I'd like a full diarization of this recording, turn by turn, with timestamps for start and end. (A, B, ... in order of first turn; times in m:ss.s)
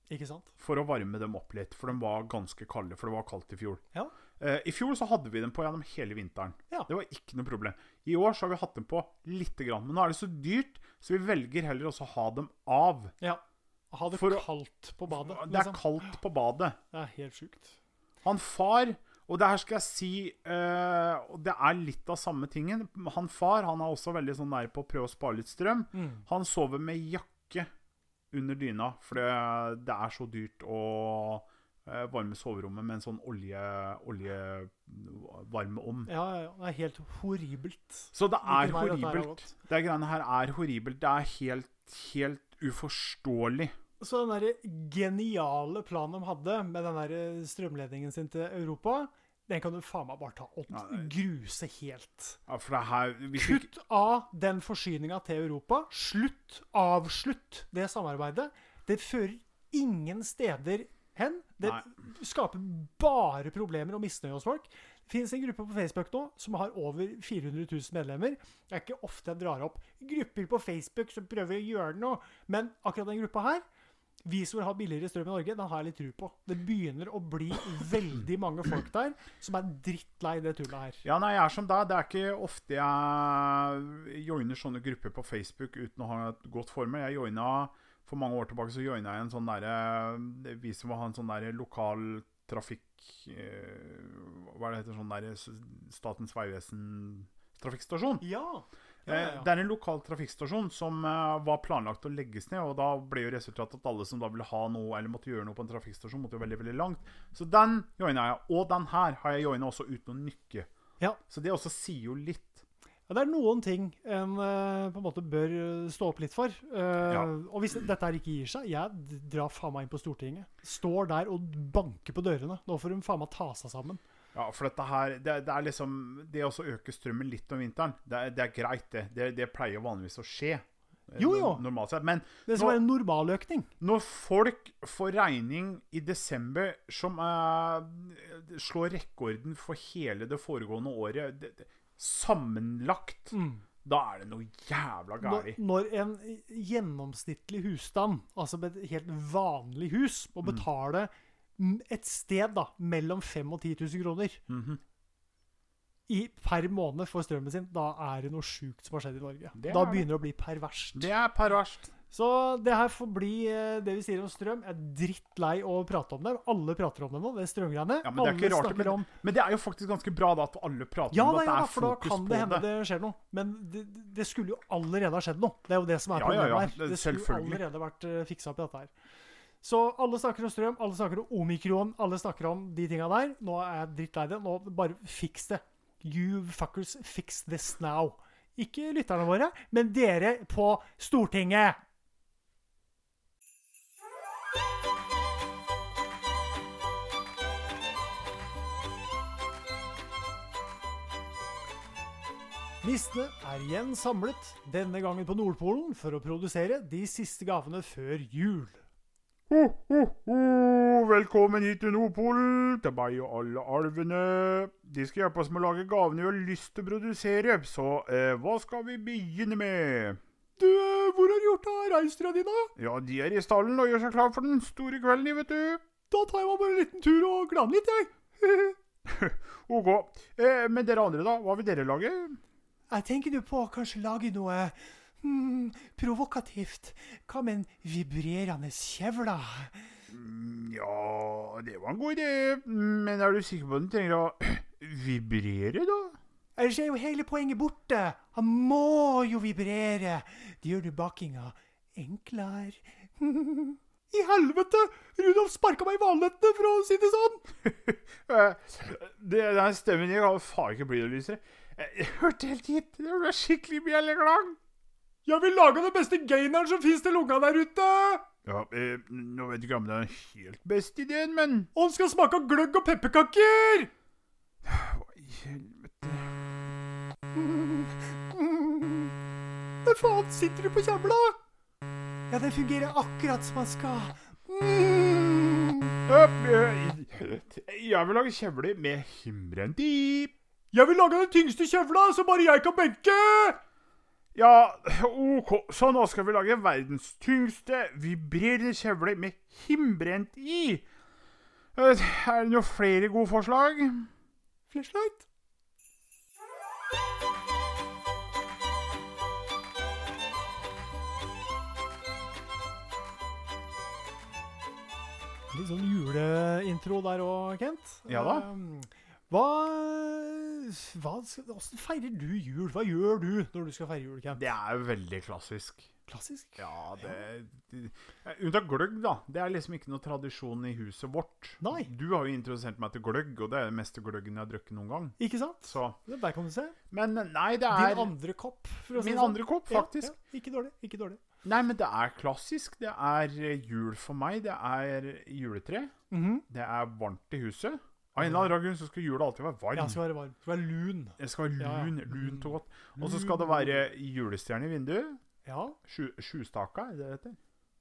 0:00.1-0:00.5 A
0:00.6-0:03.8 B
0:04.4-0:13.1 B
0:13.2-0:15.8 A
0:14.1-0:14.5 B
0:15.1-0:16.8 B
0:16.9-0:17.8 A
0:18.2-0:27.7 B
0:25.9-0:26.2 A
0:28.3-0:36.1 B
0:36.1-0:39.6 A
0:38.1-0:43.8 B
0:44.0-0:52.4 A
0:50.7-0:51.1 B
0:52.5-0:53.7 B
0:53.4-1:13.6 A
1:14.2-1:21.0 A
1:21.0-1:38.2 B
1:38.2-1:39.5 A
1:39.1-1:50.7 B
1:51.3-1:52.6 B
1:53.1-2:04.0 A
2:04.3-2:12.8 B
2:11.2-2:11.6 A
2:12.5-2:13.7 A
2:13.8-2:25.6 B
2:23.3-2:23.6 A
2:25.2-2:34.4 A
2:34.5-2:34.8 B
2:36.1-2:41.1 A
2:39.6-2:40.1 B
2:41.0-2:41.9 B
2:42.1-2:49.1 A
2:48.0-2:52.7 B
2:51.1-2:58.9 A
2:56.1-2:57.6 B
2:59.6-3:11.8 A
3:22.8-3:28.8 A
3:29.5-3:40.2 B
3:40.6-3:42.7 A
3:42.8-3:45.8 B
3:46.1-3:48.8 A
3:49.1-3:52.4 B
3:52.9-3:59.9 A
4:00.1-4:06.2 B
4:06.6-4:17.4 A
4:17.6-4:24.6 B
4:25.3-4:28.3 A
4:28.4-4:31.7 B
4:31.8-4:33.9 A
4:34.6-4:36.3 B
4:37.4-4:39.2 A
4:39.8-4:41.4 A
4:42.3-4:46.0 A
4:46.1-4:50.3 B
4:50.7-4:53.6 A
4:54.4-5:00.9 B
5:01.8-5:04.1 B
5:04.7-5:05.2 A
5:15.5-5:24.5 A
5:18.1-5:18.5 B
5:24.3-5:25.9 B
5:26.1-5:27.2 A
5:26.6-5:36.0 B
5:31.6-5:31.9 A
5:35.2-5:36.8 A
5:36.9-5:38.1 B
5:37.7-5:41.2 A
5:39.0-5:40.1 B
5:41.4-5:45.9 B
5:46.1-5:46.4 A
5:46.5-5:50.0 B
5:48.2-5:48.5 A
5:49.8-5:53.8 A
5:51.2-5:55.2 B
5:55.4-5:55.8 A
5:55.9-5:57.4 B